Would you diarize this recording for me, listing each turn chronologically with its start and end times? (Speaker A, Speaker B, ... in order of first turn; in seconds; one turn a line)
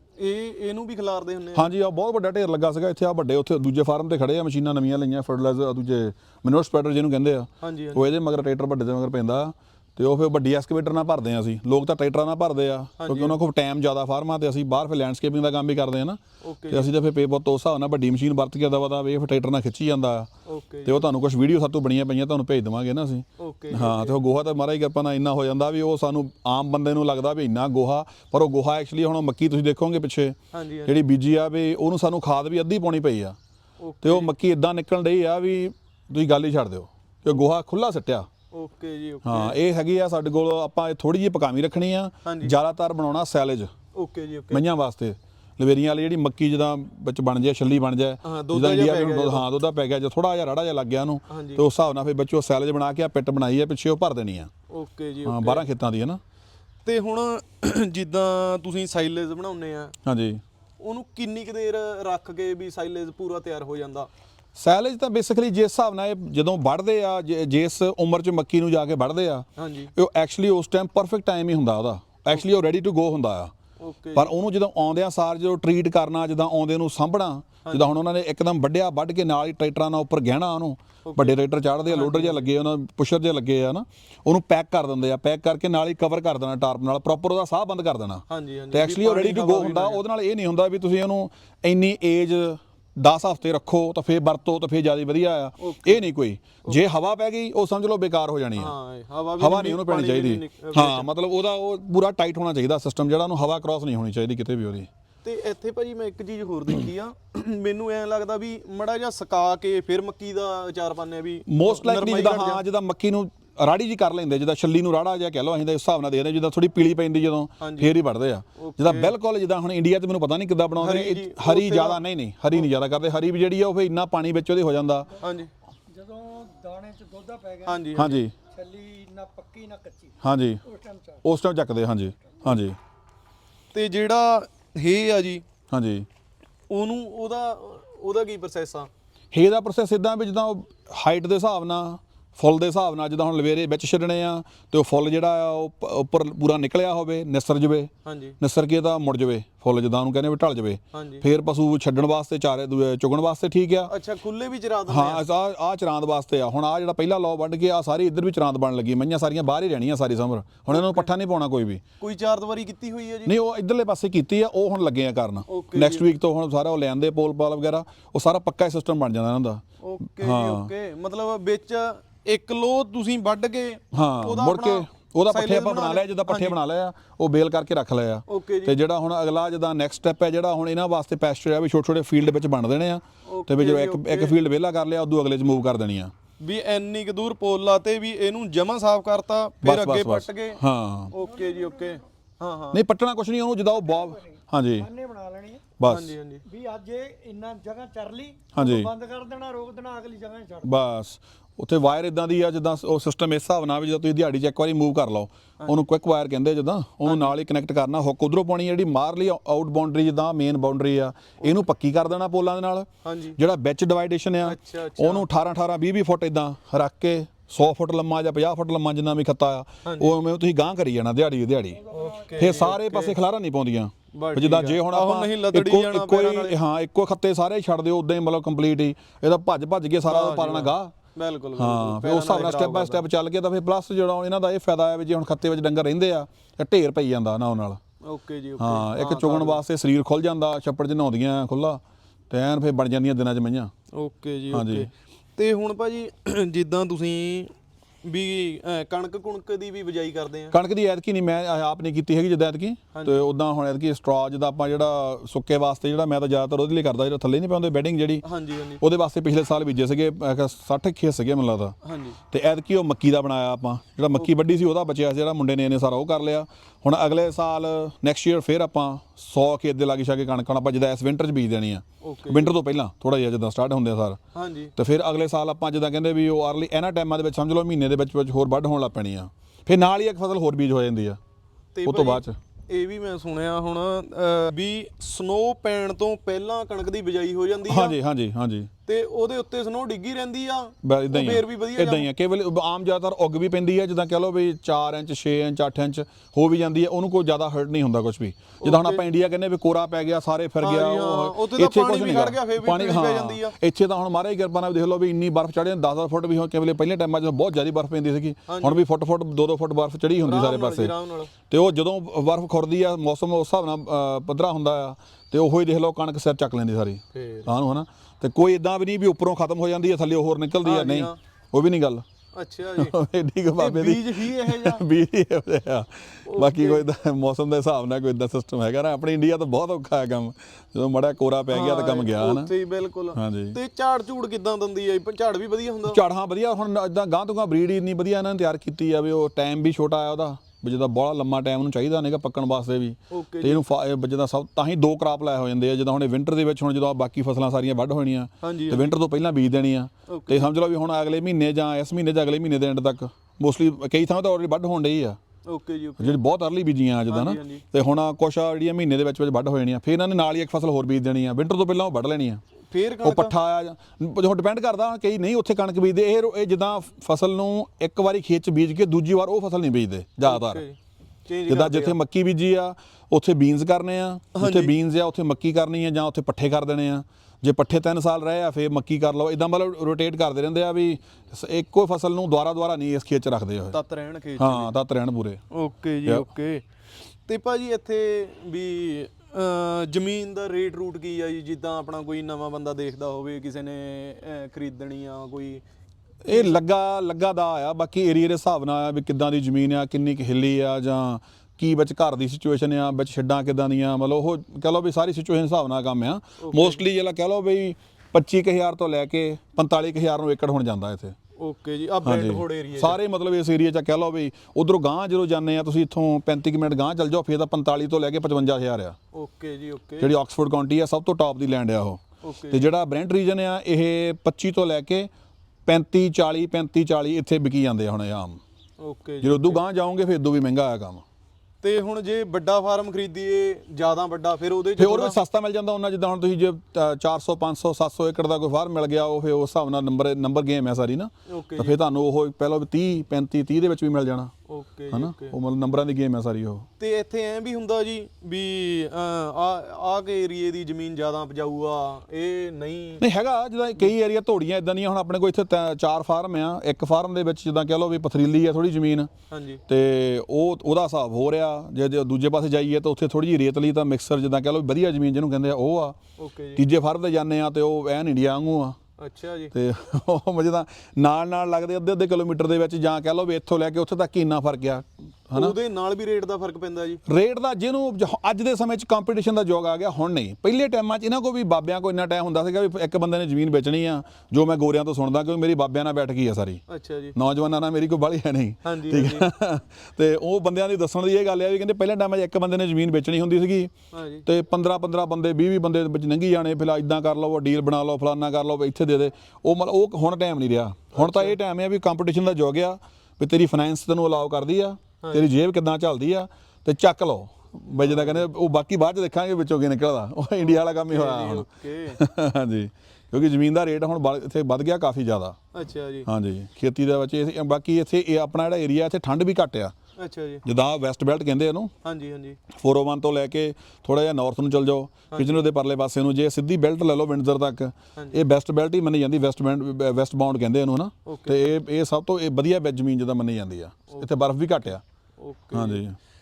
Speaker A: 0.2-1.7
Speaker B: 1.5-20.3
Speaker A: 7.6-8.1
Speaker A: 13.0-13.4
Speaker A: 16.4-16.9
Speaker A: 20.4-21.1
Speaker B: 20.9-33.4
Speaker A: 23.4-24.2
Speaker A: 30.5-30.9
Speaker A: 33.8-34.3
Speaker B: 34.0-38.3
Speaker A: 38.5-39.6
Speaker B: 39.2-43.7
Speaker A: 42.2-42.5
Speaker A: 43.9-44.6
Speaker B: 44.5-54.5
Speaker A: 48.2-49.5
Speaker A: 51.3-51.6
Speaker A: 54.7-55.7
Speaker B: 55.2-56.2
Speaker A: 56.8-60.0
Speaker B: 60.0-60.4
Speaker A: 60.8-64.1
Speaker B: 64.5-73.5
Speaker A: 69.6-69.9
Speaker A: 73.8-74.3
Speaker B: 74.1-98.7
Speaker A: 77.6-78.0
Speaker A: 81.1-82.5
Speaker A: 88.3-90.0
Speaker A: 95.6-96.0
Speaker A: 98.6-101.1
Speaker B: 99.4-104.9
Speaker A: 105.2-112.6
Speaker B: 111.5-125.1
Speaker A: 117.6-117.9
Speaker A: 118.5-119.1
Speaker A: 120.8-122.7
Speaker A: 125.2-125.5
Speaker C: 125.9-127.7
Speaker A: 127.6-128.2
Speaker B: 128.0-128.3
Speaker C: 128.5-130.2
Speaker B: 130.2-130.6
Speaker C: 130.7-131.2
Speaker B: 131.2-132.8
Speaker A: 133.7-135.4
Speaker B: 135.7-136.1
Speaker A: 136.7-138.9
Speaker B: 139.3-153.9
Speaker A: 148.0-148.4
Speaker A: 150.9-151.3
Speaker A: 153.9-155.2
Speaker B: 154.9-161.8
Speaker A: 160.7-161.1
Speaker A: 162.0-163.3
Speaker B: 163.2-169.6
Speaker A: 165.5-166.1
Speaker A: 169.8-176.6
Speaker B: 170.1-170.7
Speaker B: 173.9-186.1
Speaker A: 178.3-178.8
Speaker A: 183.2-184.4
Speaker A: 186.4-192.8
Speaker B: 189.6-191.1
Speaker B: 192.7-194.9
Speaker C: 194.2-195.7
Speaker B: 195.8-196.1
Speaker A: 195.8-196.5
Speaker C: 196.5-200.6
Speaker B: 198.5-198.9
Speaker B: 200.6-230.9
Speaker A: 207.0-207.3
Speaker A: 213.0-213.4
Speaker A: 214.4-215.2
Speaker A: 219.8-220.2
Speaker A: 221.9-223.2
Speaker A: 224.1-226.6
Speaker A: 230.1-233.0
Speaker B: 231.6-237.8
Speaker A: 238.0-239.6
Speaker B: 238.6-243.7
Speaker A: 243.9-250.6
Speaker B: 244.5-244.9
Speaker B: 250.5-258.2
Speaker A: 252.9-253.3
Speaker A: 258.2-258.8
Speaker B: 258.8-261.8
Speaker A: 261.8-262.2
Speaker B: 262.3-274.2
Speaker A: 272.0-272.5
Speaker A: 274.3-274.7
Speaker B: 274.8-281.2
Speaker A: 281.7-287.9
Speaker B: 281.8-282.4
Speaker B: 287.7-288.7
Speaker A: 288.9-292.1
Speaker B: 290.8-310.9
Speaker A: 298.6-299.0
Speaker A: 300.6-303.6
Speaker A: 308.5-308.8
Speaker A: 310.2-311.3
Speaker B: 311.5-322.1
Speaker A: 317.1-317.5
Speaker A: 320.6-321.2
Speaker A: 322.3-322.9
Speaker B: 322.8-332.5
Speaker A: 323.6-324.9
Speaker A: 326.2-326.9
Speaker A: 331.5-336.0
Speaker B: 333.1-333.6
Speaker B: 335.9-355.2
Speaker A: 343.1-343.6
Speaker A: 348.4-348.9
Speaker A: 350.1-350.5
Speaker A: 355.5-356.2
Speaker B: 356.0-362.4
Speaker A: 357.1-357.6
Speaker A: 362.7-363.3
Speaker B: 363.0-370.6
Speaker A: 370.2-372.0
Speaker B: 371.5-383.8
Speaker A: 374.4-374.8
Speaker A: 383.7-384.7
Speaker B: 384.4-385.4
Speaker A: 385.5-386.6
Speaker A: 387.3-395.6
Speaker B: 396.2-411.1
Speaker A: 396.3-396.6
Speaker A: 406.4-406.8
Speaker A: 411.4-413.0
Speaker B: 412.0-419.0
Speaker A: 419.1-420.1
Speaker B: 420.0-425.1
Speaker A: 422.2-422.7
Speaker B: 425.6-428.4
Speaker A: 428.8-429.6
Speaker B: 429.2-431.0
Speaker A: 431.6-435.2
Speaker B: 434.8-444.3
Speaker A: 441.3-441.8
Speaker A: 444.5-445.4
Speaker B: 444.9-446.6
Speaker A: 446.8-453.0
Speaker B: 453.0-459.1
Speaker A: 459.3-459.6
Speaker B: 459.7-466.0
Speaker A: 466.2-466.6
Speaker B: 466.6-468.8
Speaker A: 469.0-469.5
Speaker B: 469.5-475.5
Speaker A: 475.3-477.0
Speaker B: 477.1-486.6
Speaker A: 486.7-487.1
Speaker B: 487.1-493.7
Speaker A: 488.6-489.3
Speaker A: 493.9-494.3
Speaker B: 494.2-515.4
Speaker A: 500.9-501.4
Speaker A: 505.0-505.3
Speaker A: 507.7-508.3
Speaker A: 510.4-512.0
Speaker A: 515.5-516.1
Speaker B: 516.0-519.7
Speaker A: 520.0-520.4
Speaker B: 520.4-521.7
Speaker A: 521.8-522.4
Speaker B: 522.5-534.8
Speaker A: 525.1-525.4
Speaker A: 531.0-531.5
Speaker A: 535.2-535.8
Speaker B: 535.5-536.0